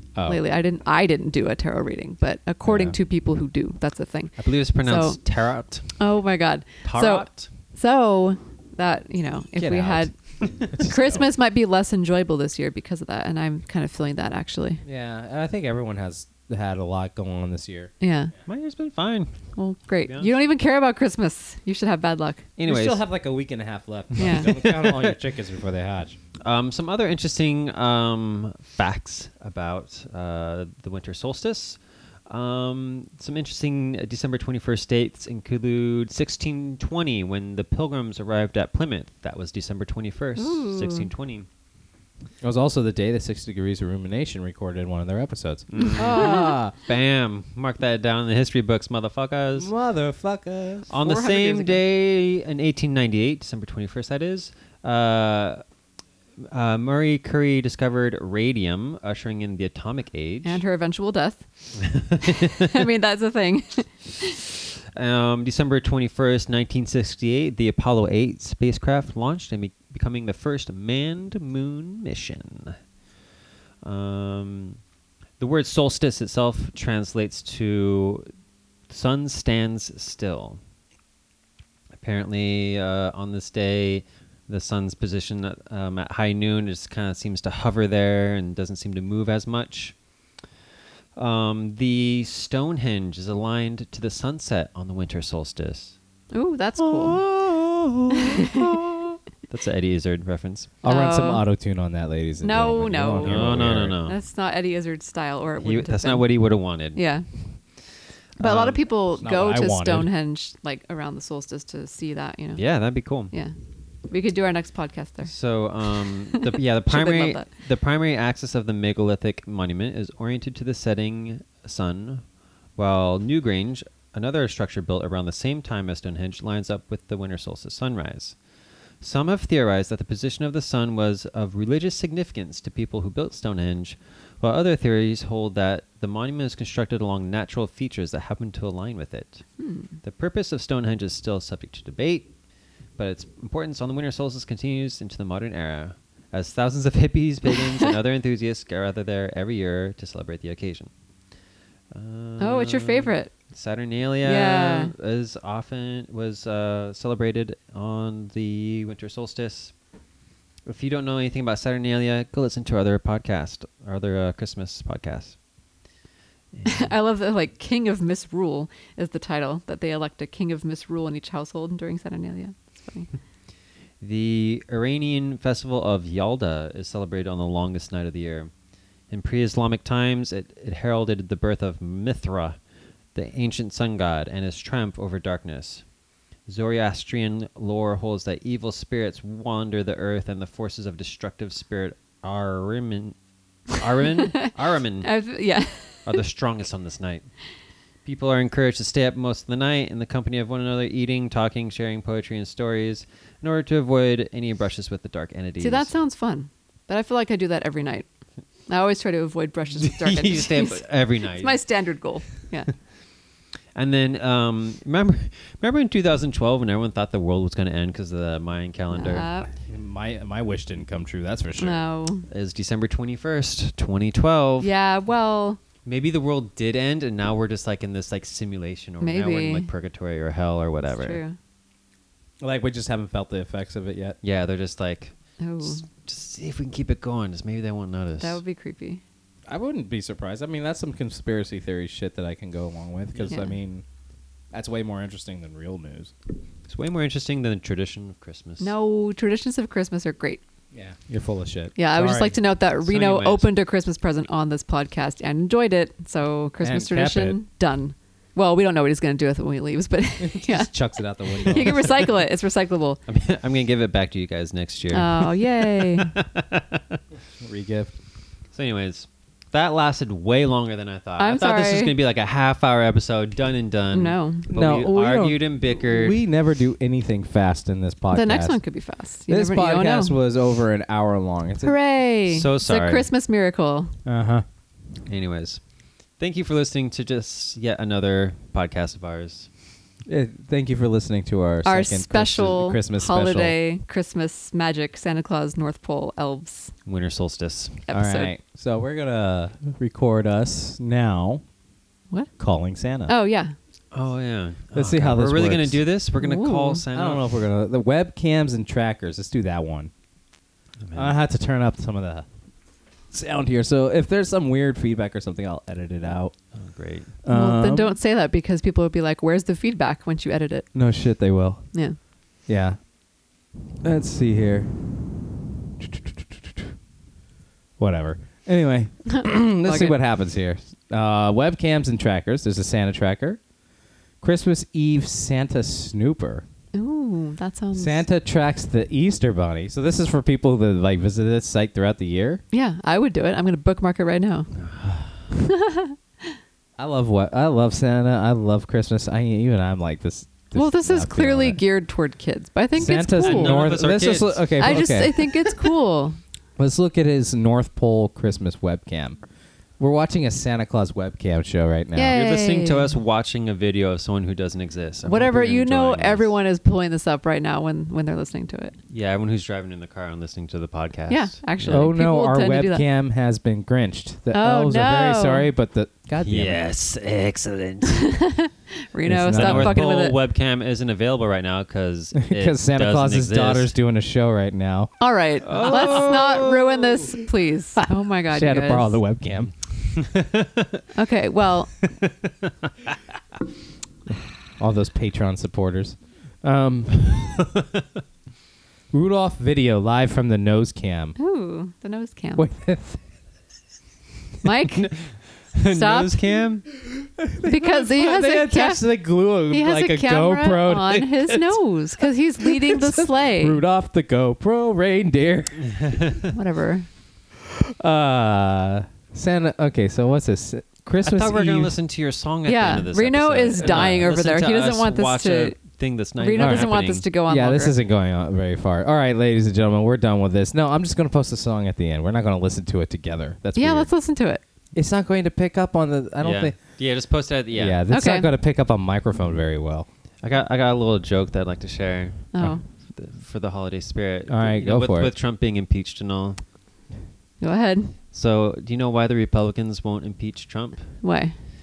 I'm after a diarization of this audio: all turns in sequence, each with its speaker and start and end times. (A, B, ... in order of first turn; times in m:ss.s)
0:00.2-0:05.2 A
0:02.6-0:02.9 B
0:04.4-0:05.9 C
0:06.0-0:10.1 A
0:06.8-0:07.5 C
0:09.6-0:11.3 B
0:10.7-0:14.8 A
0:14.8-0:17.9 B
0:18.0-0:18.3 A
0:18.4-0:19.4 C
0:19.6-0:22.5 A
0:20.0-0:20.3 C
0:22.6-0:23.0 C
0:22.6-0:26.2 B
0:24.2-0:24.5 A
0:24.2-0:25.2 C
0:26.4-0:41.5 C
0:40.4-0:41.1 A
0:42.4-0:46.7 B
0:45.7-0:49.7 C
0:45.8-0:46.5 A
0:49.6-0:51.0 B
0:50.9-0:55.6 C
0:51.0-0:51.8 A
0:56.4-1:00.6 C
1:00.4-1:04.4 A
1:01.8-1:02.8 C
1:04.9-1:12.8 C
1:13.8-1:14.8 C
1:15.4-1:18.2 C
1:18.9-1:20.6 C
1:21.9-1:29.9 C
1:31.2-1:36.0 C
1:36.3-1:37.2 A
1:36.8-1:40.7 C
1:38.1-1:38.6 A
1:40.8-1:44.0 B
1:40.8-1:41.4 A
1:42.4-1:43.5 A
1:43.2-1:44.2 C
1:44.0-1:46.3 A
1:45.6-1:47.0 C
1:46.9-1:47.2 A
1:48.4-1:52.6 A
1:49.1-1:50.1 B
1:52.6-1:53.3 C
1:54.1-1:55.3 A
1:55.2-2:02.2 C
1:56.0-1:57.5 A
2:02.8-2:08.4 C
2:09.0-2:19.4 C
2:19.6-2:19.9 A
2:20.0-2:22.3 C
2:23.0-2:30.9 C
2:31.9-2:39.7 C
2:32.4-2:33.3 A
2:34.2-2:34.9 A
2:40.6-2:45.4 C
2:46.5-2:46.9 C
2:46.6-2:53.1 A
2:54.0-2:58.5 C
2:59.1-3:02.6 C
3:03.1-3:05.8 C
3:06.5-3:13.2 C
3:13.7-3:15.1 C
3:15.0-3:16.1 A
3:16.0-3:17.3 C
3:18.0-3:25.9 C
3:25.6-3:28.0 A
3:28.7-3:32.7 A
3:29.8-3:31.6 C
3:33.7-3:39.3 C
3:38.9-3:39.5 A
3:39.7-3:41.8 B
3:41.6-3:42.3 A
3:42.3-3:44.7 C
3:44.6-3:45.6 A
3:45.8-3:51.2 C
3:49.0-3:49.7 A
3:50.9-3:51.4 A
3:52.4-3:54.2 B
3:54.2-3:58.4 C
3:55.4-3:55.8 A
3:58.2-3:59.0 A
3:59.5-4:03.8 B
4:03.2-4:03.5 A
4:04.5-4:06.1 B
4:06.7-4:08.7 C
4:08.6-4:10.4 A
4:10.7-4:12.3 B
4:11.8-4:23.0 A
4:12.8-4:13.5 C
4:16.6-4:17.4 B
4:20.2-4:22.0 B
4:23.1-4:27.0 C
4:24.9-4:26.1 A
4:27.4-4:27.9 B
4:28.5-4:36.2 C
4:31.2-4:31.9 A
4:33.9-4:34.4 A
4:34.5-4:38.6 B
4:38.1-4:40.2 A
4:39.3-4:41.7 B
4:41.6-4:43.9 A
4:42.3-4:43.1 C
4:44.0-4:44.4 B
4:45.0-4:45.6 C
4:46.2-4:49.5 C
4:50.0-4:53.5 B
4:51.6-4:56.7 A
4:56.8-4:57.8 C
4:57.9-4:58.3 A
4:57.9-5:01.4 B
5:02.4-5:03.1 B
5:03.1-5:03.5 A
5:03.9-5:07.2 C
5:04.7-5:05.8 B
5:06.2-5:06.8 A
5:06.9-5:09.9 B
5:10.8-5:11.2 C
5:10.9-5:12.2 B
5:13.1-5:16.3 B
5:16.5-5:17.1 C
5:17.2-5:17.9 B
5:17.3-5:20.7 A
5:20.7-5:21.6 B
5:22.5-5:22.8 B
5:23.8-5:25.2 B
5:25.8-5:26.7 B
5:27.8-5:33.4 B
5:29.1-5:29.9 A
5:34.2-5:36.4 B
5:36.7-5:38.0 A
5:37.7-5:42.4 B
5:42.5-5:44.5 A
5:44.6-5:45.2 C
5:45.3-5:46.4 A
5:46.8-5:51.6 B
5:50.5-5:53.6 A
5:52.7-5:55.3 B
5:53.2-5:55.0 C
5:54.6-5:56.2 A
5:56.6-5:59.2 B
5:59.8-6:02.2 B
6:01.9-6:02.9 A
6:02.1-6:06.3 C
6:05.1-6:08.7 A
6:08.9-6:11.9 C
6:11.1-6:12.8 A
6:11.7-6:16.6 B
6:14.3-6:15.5 A
6:16.2-6:18.1 C
6:17.8-6:20.2 A
6:19.0-6:19.8 B
6:19.3-6:23.7 C
6:22.2-6:24.9 B
6:25.0-6:29.0 A
6:25.4-6:27.2 C
6:25.5-6:26.2 B
6:28.3-6:29.5 B
6:30.0-6:30.8 C
6:30.9-6:31.7 A
6:32.0-6:32.9 C
6:34.6-6:37.4 B
6:37.4-6:37.8 C
6:38.9-6:41.1 B
6:41.2-6:42.4 A
6:42.4-6:43.0 B
6:44.4-6:44.9 A
6:44.7-6:46.7 C
6:45.7-6:46.2 A
6:46.8-6:51.6 B
6:47.4-6:48.8 A
6:49.5-6:53.6 A
6:52.4-6:55.9 B
6:55.7-6:56.3 C
6:56.3-6:56.9 A
6:57.5-7:01.7 B
7:01.0-7:07.0 C
7:02.5-7:05.6 A
7:06.2-7:07.8 A
7:06.4-7:13.9 B
7:13.6-7:14.4 A
7:14.7-7:16.6 B
7:16.2-7:17.8 C
7:17.5-7:19.9 B
7:17.9-7:18.3 A
7:20.2-7:26.4 C
7:22.3-7:22.6 A
7:24.3-7:25.1 B
7:27.4-7:27.9 A
7:28.1-7:31.0 C
7:31.0-7:31.3 A